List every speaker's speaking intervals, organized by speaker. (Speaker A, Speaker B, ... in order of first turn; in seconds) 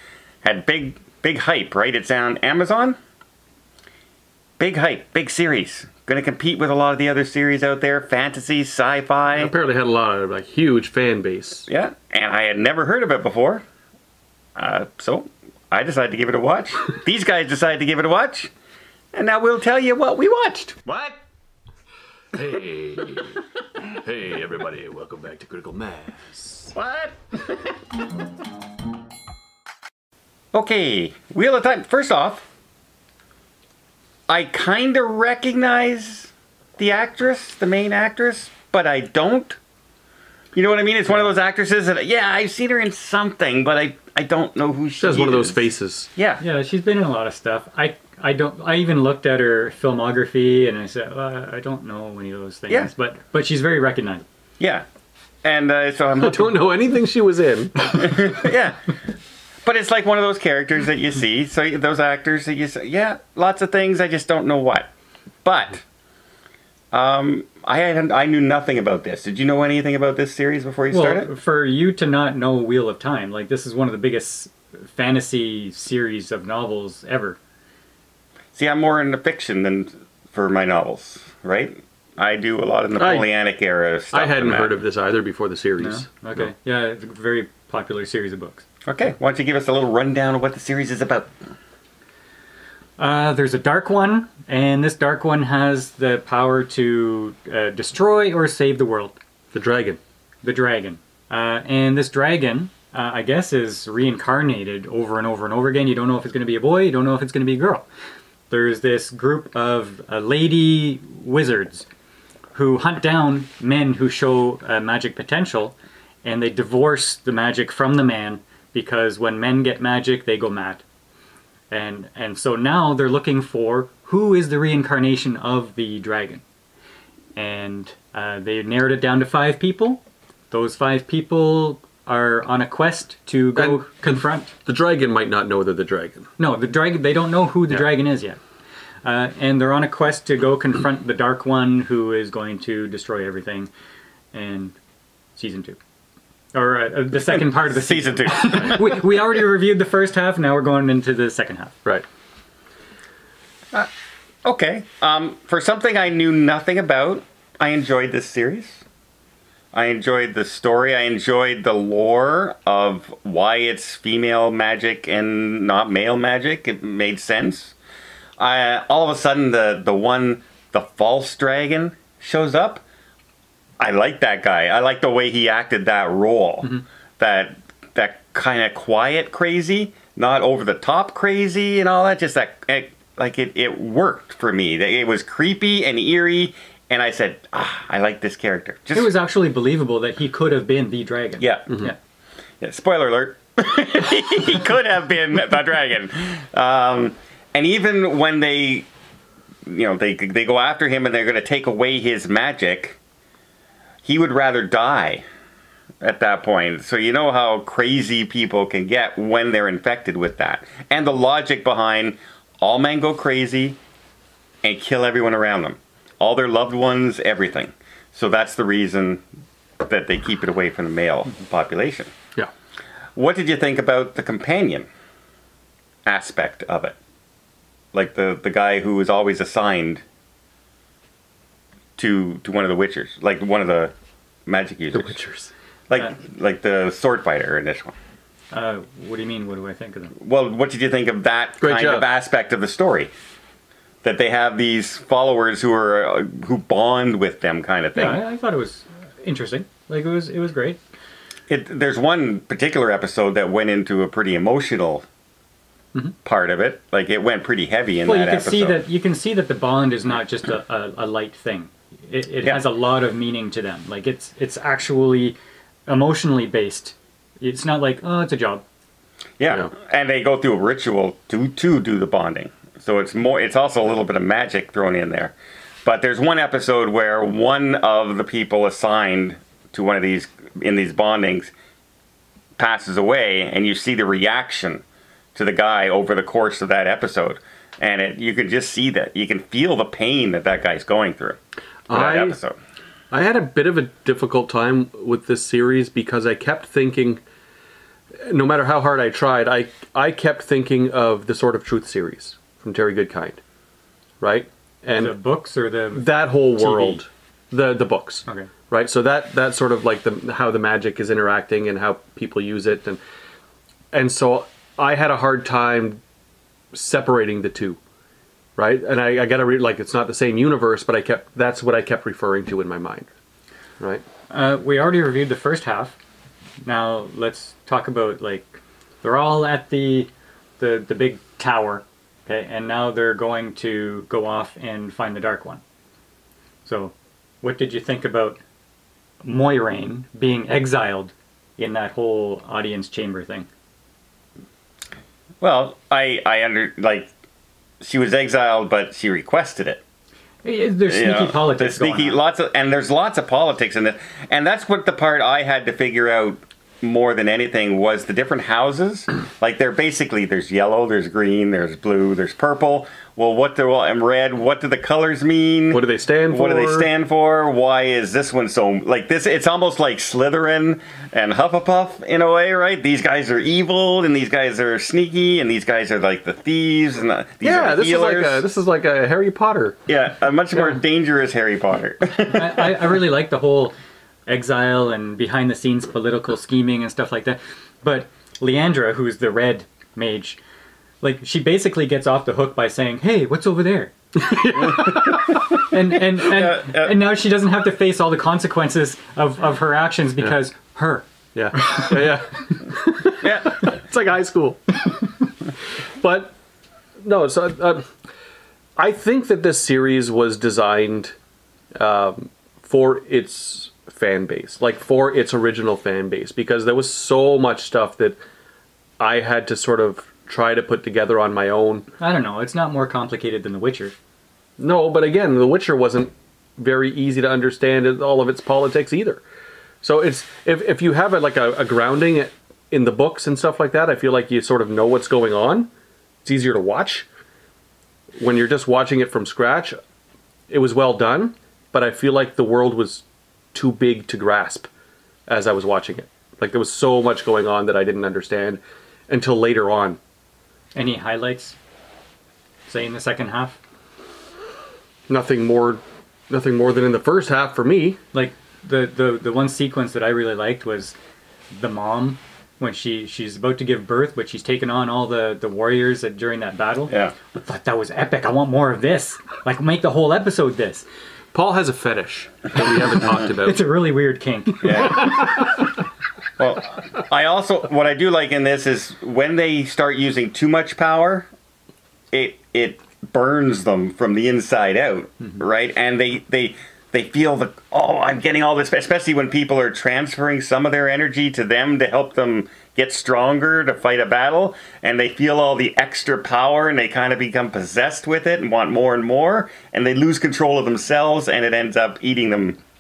Speaker A: 0.4-3.0, 4.6-9.5, 11.7-13.6, 14.6-18.5, 19.1-20.9, 26.8-27.2, 30.5-32.5, 34.3-39.6, 40.5-46.4, 54.6-54.9, 55.4-56.6, 57.9-58.9, 59.6-64.9, 65.5-65.8, 66.9-71.3, 78.5-84.8, 88.9-91.3, 147.3-149.0, 154.4-158.8, 159.7-167.8, 168.4-172.8, 173.8-189.1, 191.4-191.8, 192.6-198.9, 199.7-203.0, 204.1-205.2, 206.0-213.8, 214.6-219.2, 219.8-222.1, 223.2-224.9, 226.1-227.0, 227.9-230.0, 232.0-233.9, 234.5-235.2, 235.9-237.9, 240.2-243.1, 244.0-248.2, 251.5-255.1, 256.2-258.8, 269.4-275.3, 275.9-281.5, 282.6-284.8, 285.4-291.4, 291.9-292.6, 345.4-347.1, 347.8-349.8, 350.9-378.4, 379.9-382.9, 396.2-397.1, 403.2-403.6, 466.9-467.1, 474.6-475.2, 476.4-481.3, 482.1-502.6
Speaker B: 9.3-11.7, 22.3-23.4, 23.9-26.8, 45.0-46.1, 56.2-58.4, 83.0-83.3, 84.1-86.1, 99.5-100.0, 133.6-133.9, 134.7-136.3, 234.9-235.5, 241.6-242.0, 291.9-292.4, 293.1-297.2, 298.2-303.4, 304.2-305.2, 305.9-313.0, 313.9-316.0, 316.7-317.8, 318.6-323.1, 365.7-366.9, 377.4-379.8, 394.1-395.6, 401.3-405.2, 406.0-406.4, 407.0-407.9, 408.8-411.2, 411.8-418.2, 419.0-421.9, 424.6-429.2, 429.8-435.7, 436.2-437.1, 438.2-439.8, 440.5-444.7, 445.3-450.0, 455.1-458.0, 471.3-473.6
Speaker C: 46.4-54.2, 70.9-77.4, 85.8-88.7, 93.0-99.2, 100.4-107.9, 108.5-111.9, 112.5-120.8, 121.7-126.4, 127.4-134.5, 136.4-138.4, 139.0-143.7, 144.3-144.8, 145.4-145.8, 146.5-151.8, 188.9-192.0, 238.5-240.1, 247.9-250.8, 258.1-268.6, 304.9-307.0, 324.3-326.0, 326.6-335.6, 336.7-338.4, 339.2-343.5, 350.4-352.2, 382.3-383.7, 384.3-390.4, 391.0-393.9, 395.6-401.1, 422.0-423.9, 450.8-451.6, 452.7-453.6, 458.1-461.0, 461.5-470.9, 473.1-475.3